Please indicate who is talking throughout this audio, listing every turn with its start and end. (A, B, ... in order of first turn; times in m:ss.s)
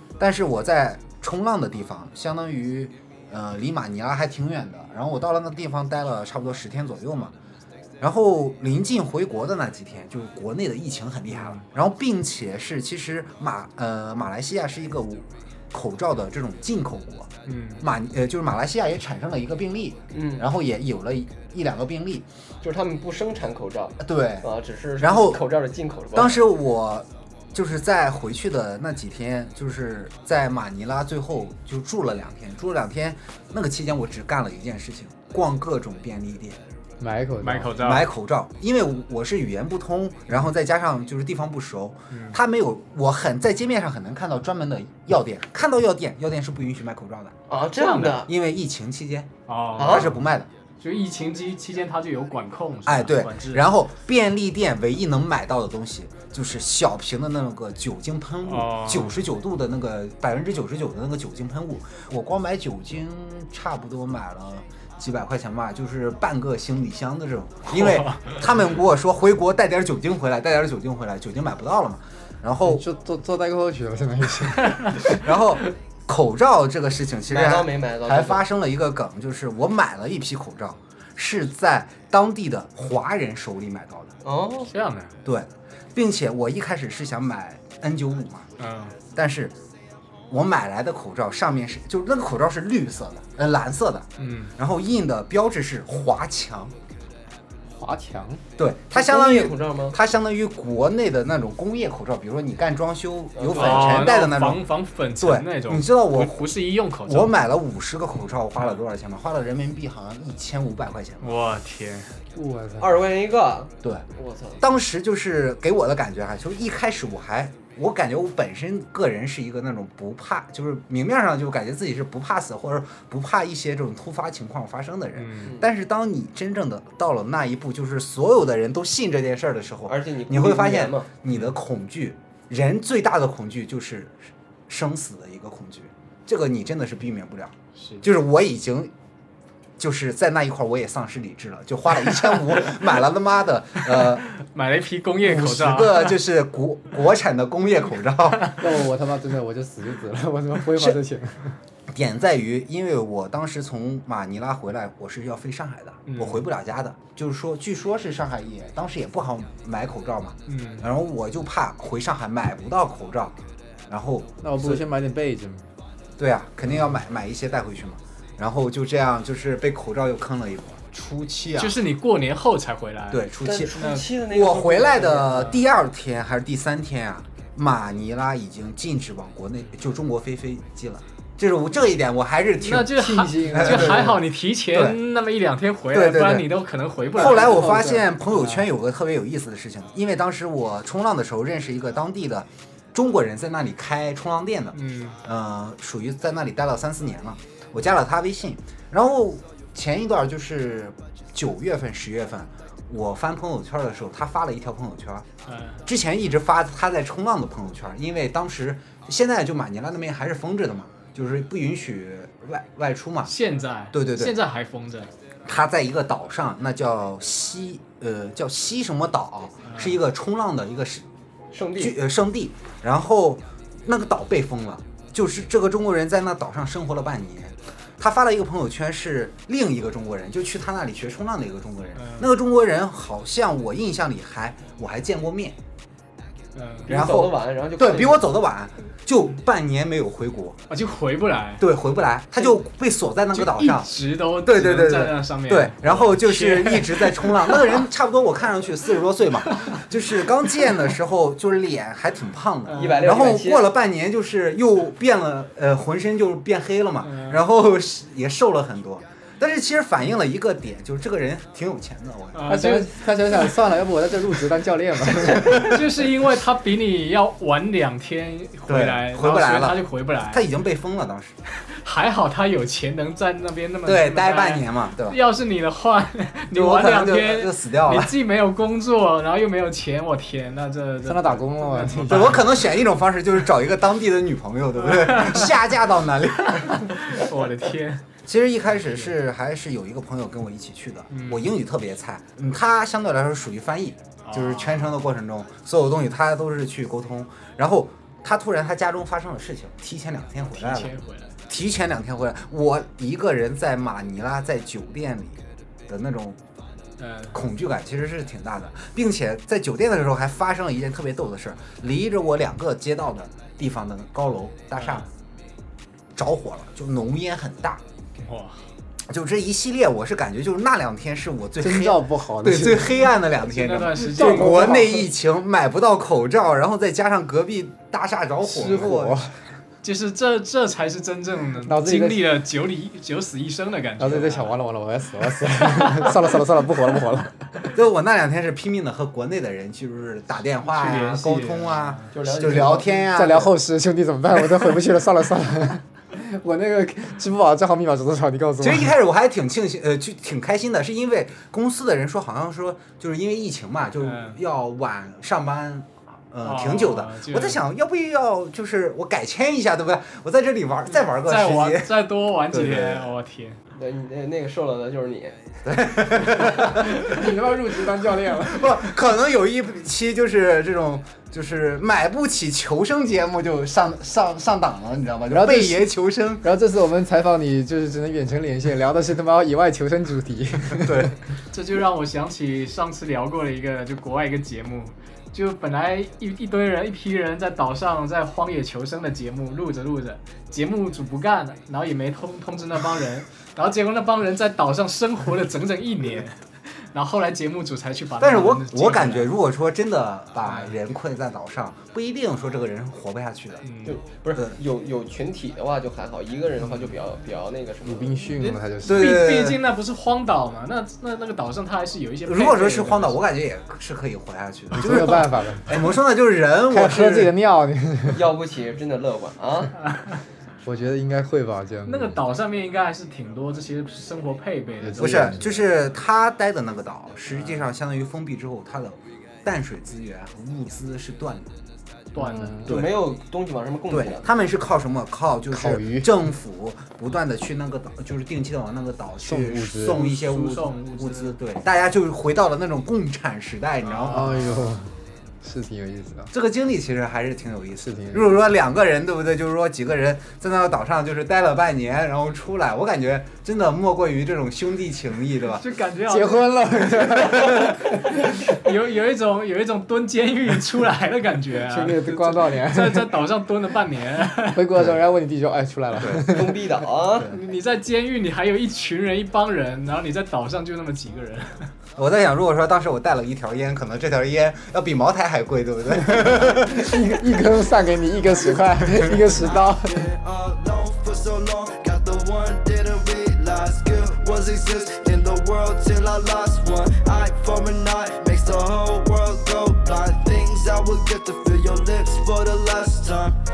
0:00.2-0:07.3 A
0:08.0-0:22.3 A
0:11.3-0:11.6 B
0:17.4-0:17.8 B
0:20.1-0:20.5 C
0:22.6-0:26.4 C
0:24.0-0:24.5 A
0:25.0-0:25.4 A
0:26.1-0:36.6 A
0:37.0-0:37.7 D
0:37.4-0:38.1 B
0:37.8-0:47.4 A
0:42.1-0:42.4 B
0:47.5-0:48.3 C
0:47.8-0:48.2 B
0:48.0-0:50.5 A
0:49.5-0:50.2 B
0:49.8-0:50.1 C
0:50.8-0:53.6 B
0:52.9-1:12.8 A
0:58.4-0:59.2 B
1:12.7-1:15.2 D
1:15.0-1:24.1 A
1:17.3-1:18.4 C
1:24.2-1:24.7 C
1:24.7-1:25.2 B
1:25.2-1:28.5 A
1:28.6-1:29.0 B
1:29.2-1:29.6 A
1:30.3-1:36.7 A
1:34.2-1:34.5 B
1:37.7-1:38.4 D
1:38.6-1:44.6 A
1:38.9-1:40.0 C
1:43.4-1:44.0 C
1:43.5-1:47.4 B
1:45.2-1:46.4 A
1:47.0-1:51.4 A
1:51.2-1:52.2 B
1:52.3-1:53.0 D
1:52.8-1:54.6 C
1:54.6-2:18.9 A
2:05.2-2:05.6 B
2:09.9-2:11.1 C
2:17.8-2:18.0 B
2:19.8-2:24.3 A
2:23.9-2:26.2 B
2:25.2-2:28.6 A
2:28.6-2:31.6 D
2:31.9-2:44.9 A
2:36.1-2:36.4 B
2:40.5-2:40.9 B
2:44.4-2:45.8 D
2:46.2-2:51.8 A
2:51.5-2:53.2 B
2:53.1-2:53.7 A
2:53.4-2:55.5 C
2:53.8-2:54.1 B
2:54.3-3:02.9 A
3:02.6-3:07.8 B
3:03.0-3:04.2 D
3:03.5-3:04.2 A
3:04.7-3:05.0 A
3:05.9-3:06.5 A
3:07.1-3:25.3 A
3:07.4-3:08.1 D
3:14.7-3:15.2 B
3:25.5-3:25.8 B
3:25.8-3:33.3 A
3:33.3-3:35.1 B
3:33.9-3:34.3 A
3:35.4-3:41.0 A
3:39.7-3:40.0 B
3:41.5-3:42.0 C
3:41.8-3:55.6 A
3:52.0-3:52.3 B
3:56.6-3:56.9 B
3:56.9-3:58.3 C
3:56.9-4:00.6 A
4:00.7-4:01.7 B
4:01.6-4:22.6 A
4:03.3-4:07.8 B
4:12.7-4:13.1 B
4:12.8-4:13.7 C
4:17.0-4:17.4 B
4:22.3-4:22.9 B
4:22.5-4:25.5 D
4:25.3-4:25.5 A
4:25.3-4:30.5 B
4:28.7-4:31.4 A
4:31.5-4:42.5 B
4:33.9-4:35.2 A
4:36.5-4:38.2 A
4:41.0-4:42.3 D
4:42.1-4:46.9 A
4:44.9-4:45.5 B
4:46.6-4:48.1 B
4:48.2-5:01.0 A
4:48.8-4:49.1 B
4:51.1-4:51.5 B
4:54.2-4:54.9 B
5:00.4-5:01.4 B
5:01.5-5:06.4 A
5:07.0-5:07.4 B
5:07.3-5:15.1 A
5:14.8-5:15.1 B
5:16.2-5:17.8 A
5:18.2-5:18.7 B
5:19.1-5:29.3 A
5:21.6-5:23.0 D
5:23.4-5:24.7 B
5:24.1-5:25.1 D
5:28.4-5:29.3 D
5:29.8-5:34.6 B
5:31.6-5:32.3 D
5:34.0-5:37.6 D
5:35.5-5:36.1 B
5:37.7-5:43.5 A
5:40.7-5:42.2 B
5:42.1-5:43.0 C
5:42.7-5:48.9 D
5:48.6-6:02.0 A
5:54.0-5:54.4 B
5:56.4-5:57.6 B
6:01.0-6:03.6 B
6:02.5-6:03.2 A
6:03.8-6:05.5 C
6:05.7-6:06.8 A
6:06.2-6:06.5 C
6:07.0-6:08.7 D
6:08.2-6:16.5 A
6:15.3-6:15.8 D
6:16.4-6:21.1 D
6:20.8-6:21.2 A
6:21.5-6:39.3 B
6:38.2-6:43.6 A
6:40.4-6:40.7 B
6:43.6-6:44.0 B
6:43.8-6:48.3 C
6:47.8-6:49.1 D
6:48.4-6:53.2 B
6:48.8-6:49.6 A
6:52.3-6:57.3 A
6:54.7-6:55.8 D
6:56.7-6:58.2 D
6:58.1-6:59.7 C
7:00.6-7:02.2 D
7:01.9-7:05.5 B
7:04.8-7:05.4 D
7:05.0-7:11.5 A
7:07.3-7:07.7 B
7:12.1-7:12.8 B
7:12.2-7:12.7 D
7:12.7-7:14.3 C
7:12.7-7:13.0 A
7:13.9-7:24.3 A
7:15.5-7:16.1 D
7:19.2-7:20.0 D
7:20.0-7:21.4 B
7:23.8-7:24.8 B
7:24.1-7:26.3 D
7:26.3-7:35.6 A
7:27.8-7:28.2 D
7:35.5-7:44.7 B
7:36.1-7:38.5 D
7:41.7-7:43.2 D
7:44.5-7:46.5 D
7:46.0-7:46.3 A
7:46.3-7:47.3 C
7:47.2-7:51.7 B
7:52.0-7:56.9 A
7:56.1-8:00.1 D
7:58.2-8:13.4 E